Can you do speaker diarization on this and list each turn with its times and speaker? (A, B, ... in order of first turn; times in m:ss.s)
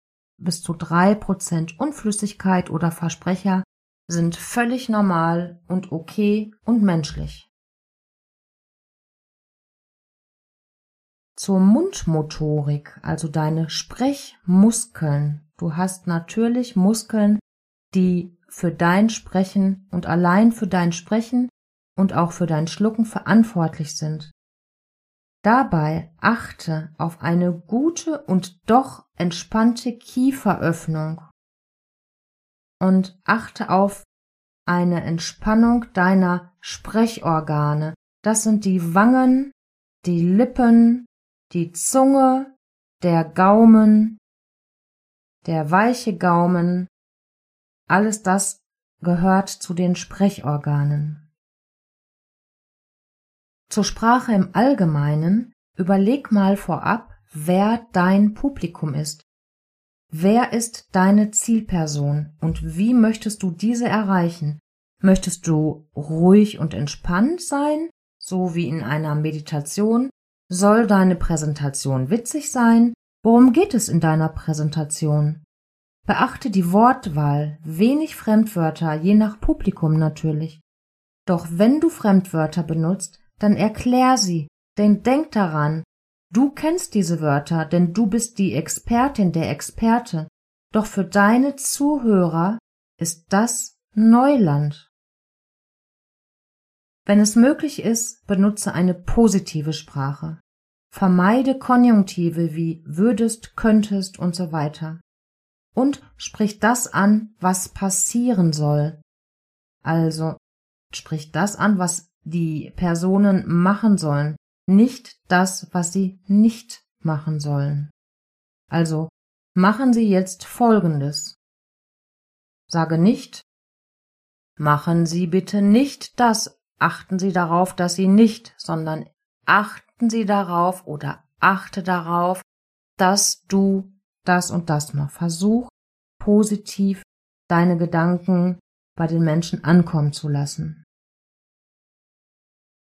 0:00.4-0:07.5 A
0:11.4-0:24.3 A
0:25.4-0:31.3 A
0:32.8-0:34.0 A
0:34.7-0:44.2 A
0:45.4-0:46.9 A
0:47.9-0:51.2 A
0:53.7-0:59.2 A
1:00.1-1:15.4 A
1:16.0-1:20.6 A
1:21.2-1:34.9 A
1:37.0-1:45.0 A
1:45.7-1:49.0 A
1:49.8-1:50.4 A
1:50.9-1:57.9 A
1:58.7-2:01.4 A
2:02.7-2:03.4 A
2:04.6-2:12.4 A
2:13.0-2:20.8 A